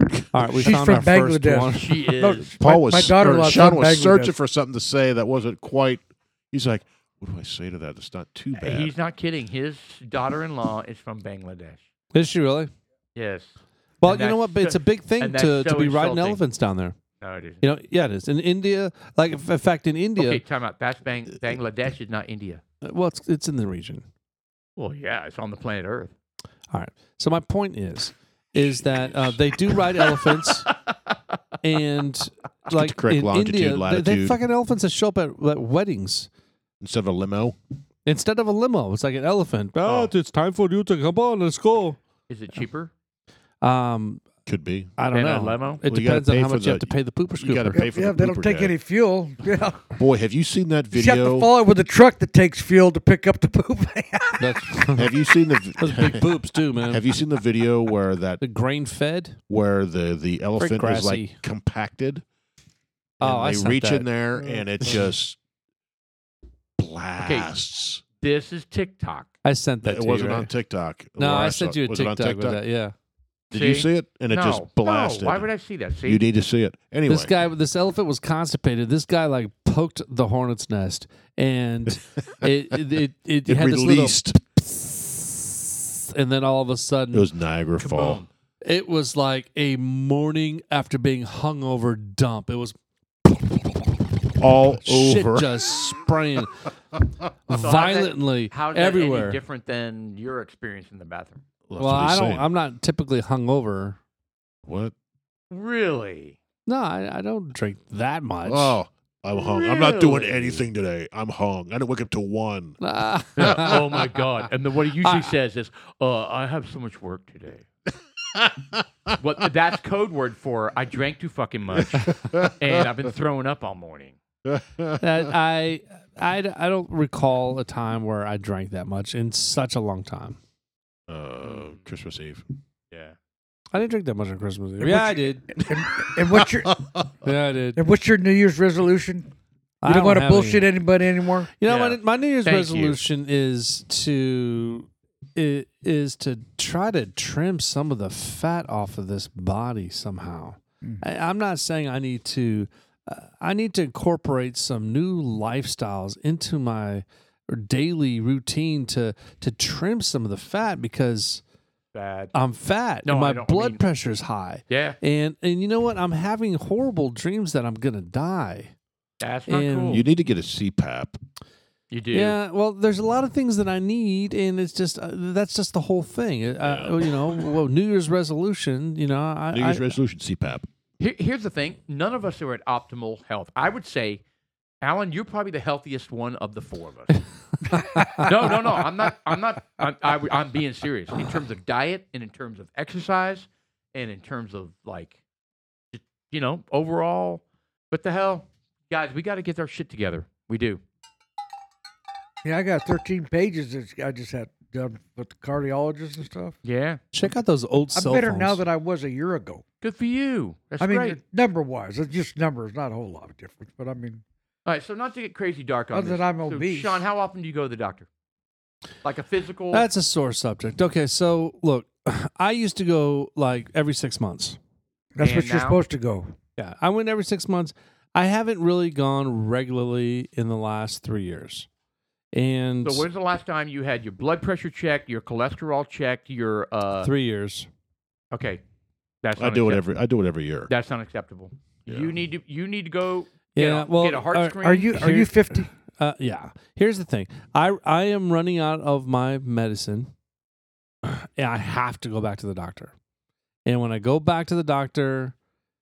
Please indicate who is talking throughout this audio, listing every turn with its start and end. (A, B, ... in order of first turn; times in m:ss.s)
0:00.3-0:02.0 A
0:00.4-0:04.3 B
0:01.7-0:02.5 C
0:02.6-0:08.9 D
0:08.6-0:11.8 C
0:12.1-0:12.7 A
0:13.1-0:16.4 C
0:14.0-0:17.0 A
0:17.2-0:17.6 C
0:17.6-0:20.4 A
0:20.2-0:22.6 C
0:22.8-0:24.0 A
0:24.8-0:26.1 C
0:26.7-0:30.7 A
0:28.6-0:29.4 D
0:31.6-0:36.3 A
0:32.7-0:34.4 D
0:36.8-0:37.6 D
0:38.0-0:42.0 A
0:42.3-0:42.9 C
0:43.6-0:44.2 A
0:44.4-0:45.0 D
0:45.0-0:47.8 A
0:45.1-0:45.8 C
0:45.8-0:48.7 D
0:47.7-0:50.0 B
0:50.0-0:51.5 D
0:50.9-0:54.9 B
0:54.4-0:55.1 A
0:55.0-0:58.4 D
0:55.8-0:57.0 A
0:58.4-0:59.4 A
0:59.5-1:02.2 D
1:00.6-1:01.4 A
1:03.2-1:04.1 A
1:03.2-1:05.4 D
1:06.8-1:08.0 D
1:07.2-1:07.5 C
1:08.2-1:09.3 C
1:09.4-1:10.5 A
1:09.8-1:12.6 D
1:11.2-1:12.9 A
1:13.5-1:16.2 C
1:13.5-1:15.5 D
1:16.0-1:17.3 D
1:17.1-1:27.3 A
1:22.2-1:22.8 D
1:23.4-1:24.4 D
1:27.1-1:28.2 D
1:27.8-1:28.3 C
1:28.6-1:32.7 A
1:33.3-1:33.6 A
1:34.4-1:35.5 D
1:34.7-1:36.6 A
1:37.5-1:39.4 A
1:37.5-1:41.4 C
1:41.7-1:42.5 D
1:41.8-1:44.0 A
1:44.6-1:44.9 D
1:45.5-1:46.4 C
1:46.6-1:48.8 A
1:48.4-1:52.8 D
1:49.3-1:50.6 C
1:52.8-1:53.8 A
1:53.4-1:57.6 C
1:53.4-1:54.0 D
1:55.0-1:55.3 A
1:58.3-1:59.2 D
1:59.2-2:04.2 C
2:01.7-2:02.8 D
2:04.4-2:05.3 D
2:05.0-2:10.4 A
2:11.1-2:12.4 D
2:12.9-2:13.2 C
2:13.7-2:15.4 A
2:14.8-2:16.8 B
2:16.2-2:17.1 D
2:17.2-2:17.8 A
2:17.8-2:19.3 B
2:19.8-2:20.7 A
2:19.8-2:21.5 B
2:21.6-2:41.4 A
2:21.7-2:23.0 C
2:41.9-2:42.3 C
2:42.3-2:48.7 A
2:43.0-2:43.8 C
2:44.7-2:45.0 C
2:49.2-2:50.0 C
2:49.5-2:50.0 A
2:49.9-2:51.2 D
2:51.9-2:52.4 C
2:52.1-2:59.8 A
2:56.6-2:57.5 D
2:59.5-3:00.7 D
3:01.0-3:04.2 C
3:04.8-3:07.2 C
3:07.7-3:08.2 A
3:08.1-3:15.1 C
3:15.9-3:20.8 C
3:22.4-3:26.5 B
3:26.6-3:27.0 C
3:27.1-3:28.6 A
3:27.9-3:29.6 B
3:29.8-3:31.2 C
3:30.8-3:34.2 B
3:34.6-3:38.1 C
3:35.9-3:37.0 B
3:39.0-3:39.8 C
3:39.7-3:44.6 A
3:45.1-3:46.3 B
3:45.2-3:45.8 C
3:46.6-3:51.7 A
3:52.3-3:53.1 A
3:52.8-3:57.1 C
3:57.0-3:57.7 A
3:58.3-3:58.6 C
3:59.2-3:59.8 C
3:59.4-4:00.7 D
4:00.7-4:05.2 C
4:01.9-4:02.1 D
4:03.5-4:10.1 A
4:04.6-4:05.7 B
4:11.0-4:12.9 A
4:13.6-4:15.3 A